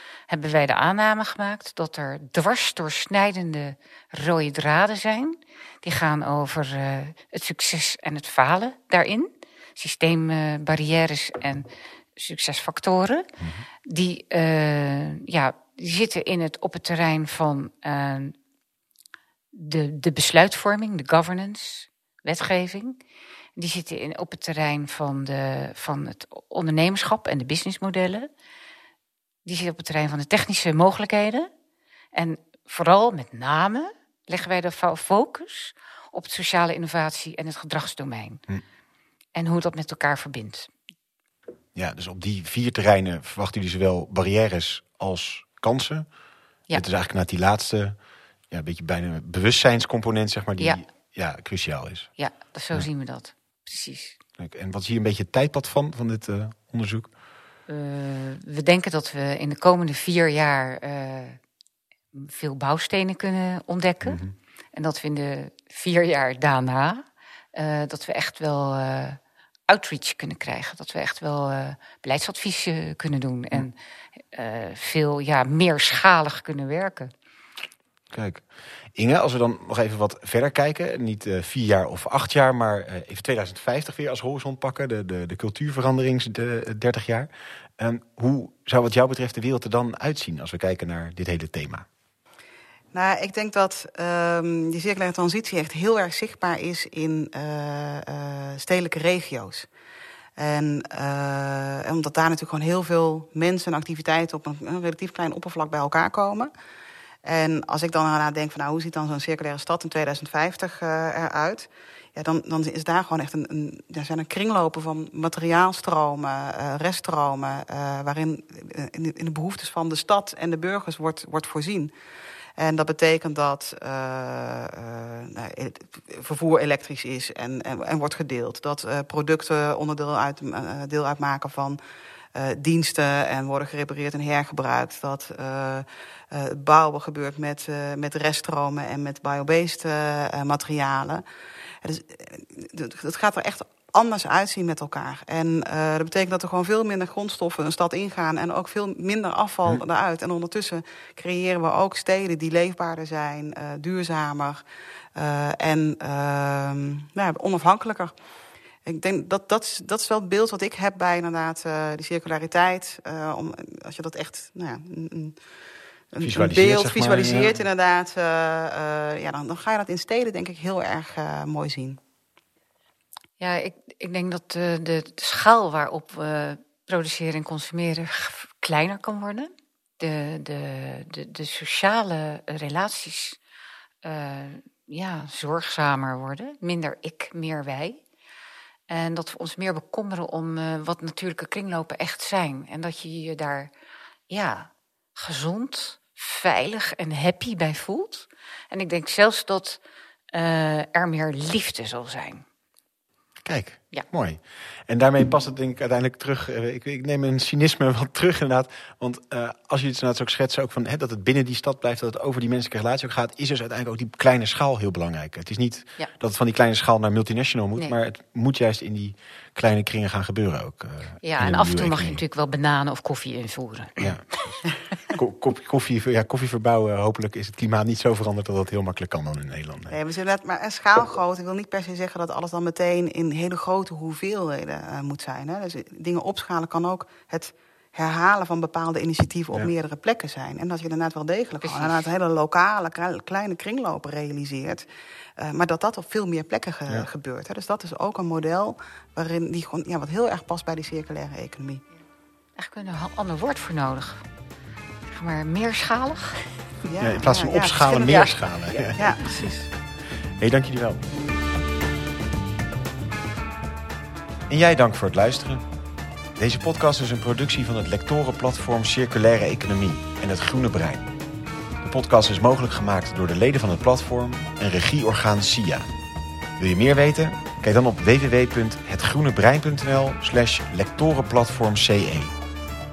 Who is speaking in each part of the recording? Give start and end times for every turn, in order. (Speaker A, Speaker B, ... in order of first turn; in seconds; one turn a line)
Speaker A: 0.3-13.3
Speaker B: 13.4-13.7
Speaker A: 13.8-18.4
Speaker A: 19.5-23.0
Speaker A: 23.6-28.3
Speaker A: 29.4-31.5
Speaker A: 32.1-38.4
Speaker A: 39.4-40.7
Speaker B: 41.8-46.1
Speaker B: 46.7-48.0
Speaker B: 48.5-52.1
Speaker A: 52.2-54.2
Speaker B: 54.4-57.1
Speaker A: 57.7-61.4
Speaker A: 62.1-64.2
Speaker B: 64.0-64.3
Speaker A: 64.7-67.0
Speaker A: 67.5-73.8
Speaker A: 74.3-77.1
Speaker B: 78.1-78.4
Speaker B: 79.0-91.9
Speaker C: 92.9-99.7
Speaker C: 100.4-106.5
Speaker C: 107.2-121.9
Speaker C: 122.6-131.8
Speaker C: 132.3-141.2
Speaker C: 141.8-154.6
Speaker C: 155.2-158.1
Speaker C: 158.9-165.4
Speaker C: 166.1-172.0
Speaker B: 166.2-167.5
Speaker A: 173.4-183.4
Speaker A: 184.0-188.0
Speaker A: 188.9-193.7
Speaker A: 194.3-199.8
Speaker A: 200.3-202.4
Speaker B: 203.4-222.2
Speaker A: 221.2-224.6
Speaker B: 224.0-224.6
Speaker B: 225.1-230.0
Speaker C: 229.9-244.8
Speaker A: 241.6-242.1
Speaker C: 245.4-251.8
Speaker A: 252.6-254.2
Speaker A: 255.1-256.5
Speaker C: 256.9-258.3
Speaker B: 257.0-259.0
Speaker A: 257.9-259.5
Speaker C: 258.9-259.7
Speaker B: 260.4-261.1
Speaker B: 264.5-265.6
Speaker B: 266.4-271.1
Speaker B: 271.8-275.9
Speaker B: 276.6-282.4